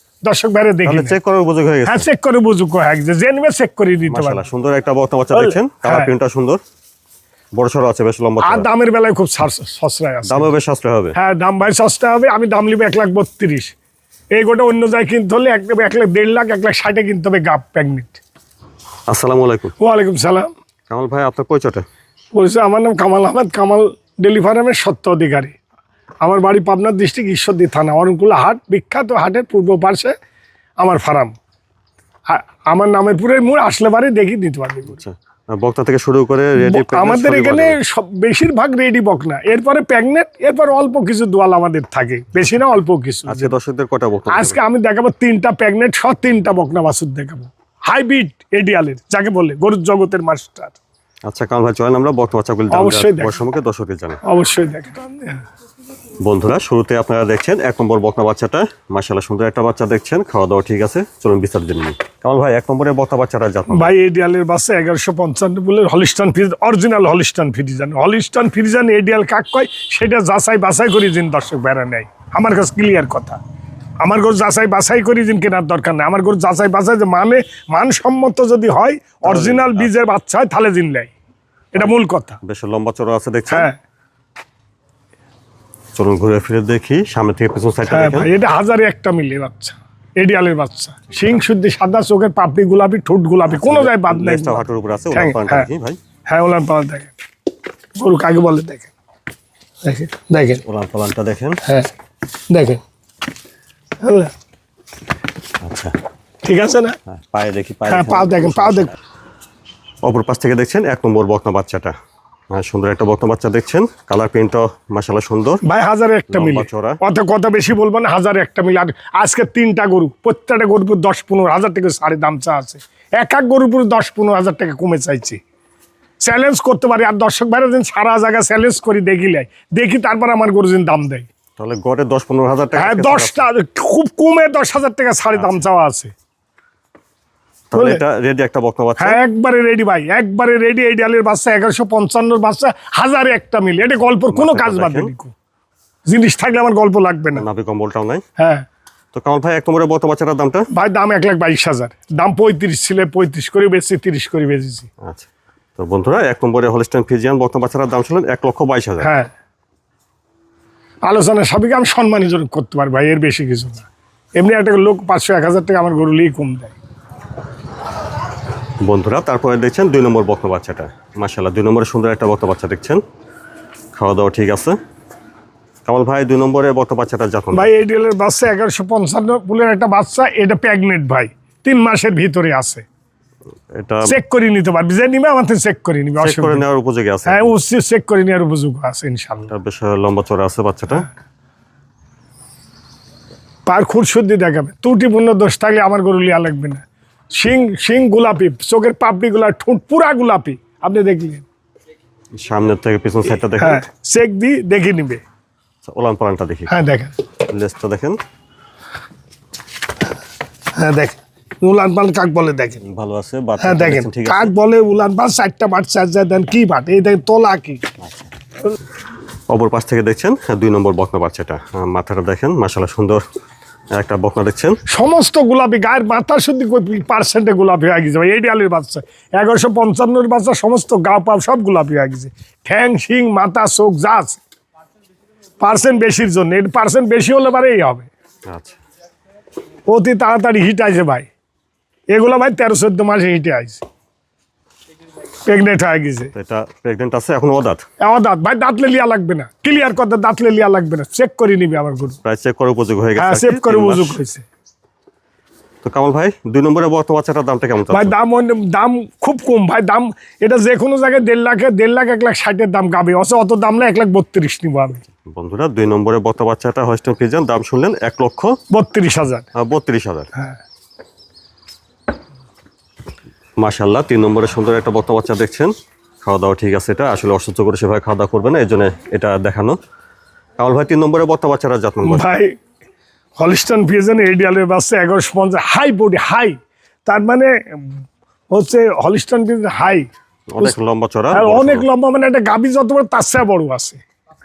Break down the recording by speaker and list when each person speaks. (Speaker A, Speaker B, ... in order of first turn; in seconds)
Speaker A: 0.2-1.2, 1.9-4.5, 5.3-6.1, 8.4-10.5, 11.2-13.7, 14.3-18.2, 19.8-20.5, 22.3-25.6, 26.2-30.1, 30.8-31.4, 32.3-35.0, 36.6-43.5, 44.3-50.8, 52.7-53.4, 54.2-55.4, 63.7-73.4, 74.0-81.1, 81.7-82.4, 83.5-83.8, 87.9-95.7, 96.3-97.1, 98.0-98.9, 99.8-100.6, 101.6-101.9, 102.5-102.8, 104.0-104.3, 106.4-107.0, 107.9-108.9, 115.6-125.4, 126.2-131.3, 132.8-136.1, 137.8-138.0, 139.0-145.3, 146.1-147.4, 148.4-148.7, 150.7-154.9, 159.0-159.3, 161.1-166.8, 177.5-182.8, 184.1-186.6, 187.3-189.5, 193.7-201.4, 203.6-205.2, 206.7-207.1, 210.8-212.8, 213.6-217.8, 224.9-234.4, 235.6-238.1, 239.9-241.3, 242.1-243.8, 245.5-246.3, 248.0-252.2, 253.2-254.5, 257.9-265.0, 268.7-269.5, 270.3-270.6, 282.0-282.6, 283.4-290.1, 291.3-294.0
Speaker B: 0.8-2.1, 4.1-6.6, 7.5-8.7, 10.3-11.2, 19.1-19.8, 20.9-21.8, 35.0-37.8, 43.3-44.6, 51.2-54.2, 56.2-63.9, 79.2-79.9, 81.8-83.7, 86.0-88.3, 93.5-96.0, 100.6-101.6, 105.6-106.0, 107.1-109.0, 110.0-111.9, 112.5-115.6, 116.3-117.0, 131.6-133.4, 135.3-135.7, 137.7-139.2, 144.3-145.1, 147.4-148.2, 149.1-150.7, 155.0-159.1, 168.8-173.0, 173.9-174.8, 175.9-177.7, 183.7-184.1, 186.2-187.6, 189.5-191.1, 202.3-203.8, 205.8-206.7, 207.5-208.2, 212.8-214.5, 219.5-223.2, 223.9-224.8, 238.5-238.7, 246.3-247.8, 252.2-254.2, 255.8-258.1, 265.3-268.6, 269.6-270.3, 273.6-279.8, 280.6-282.3, 290.5-291.9